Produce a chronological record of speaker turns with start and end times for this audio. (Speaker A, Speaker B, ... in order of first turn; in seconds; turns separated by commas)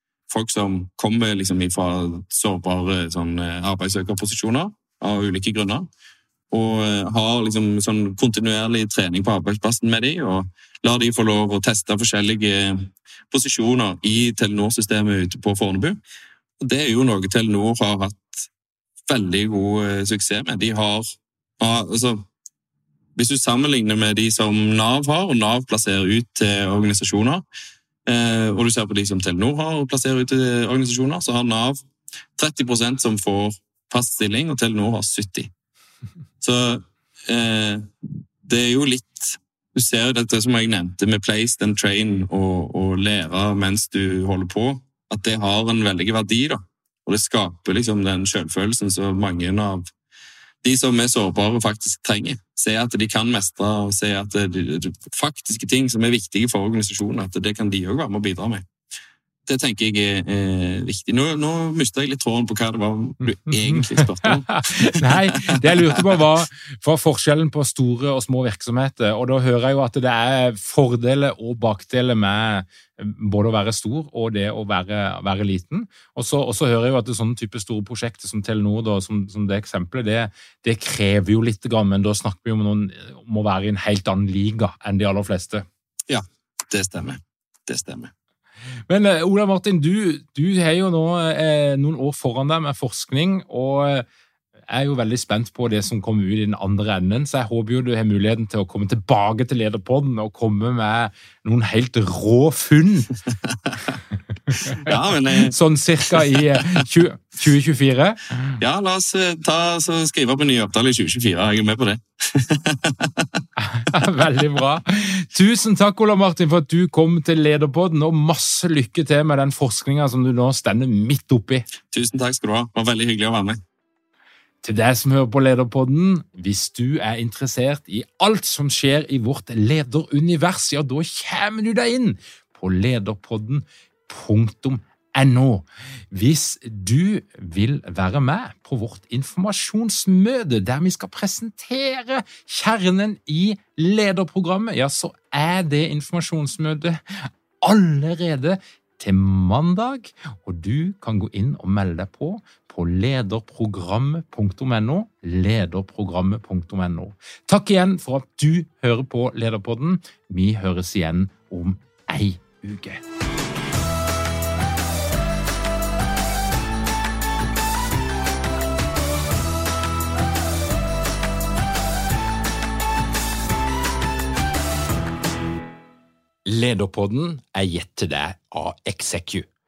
Speaker A: 0.3-5.9, Speaker A: 6.5-16.0, Speaker A: 16.6-18.5, Speaker A: 19.1-22.3, Speaker A: 23.1-27.4, Speaker A: 28.1-31.8, Speaker A: 32.4-35.5, Speaker A: 36.4-49.9, Speaker A: 50.6-58.6, Speaker A: 59.5-66.2, Speaker B: 63.6-85.6, Speaker A: 86.1-88.1, Speaker B: 88.9-94.0, Speaker B: 94.7-103.2, Speaker B: 104.5-108.5, Speaker A: 104.8-105.5, Speaker A: 106.1-106.8, Speaker A: 108.6-113.4, Speaker B: 113.6-121.7, Speaker A: 121.9-123.6, Speaker B: 124.6-163.0, Speaker B: 176.4-179.5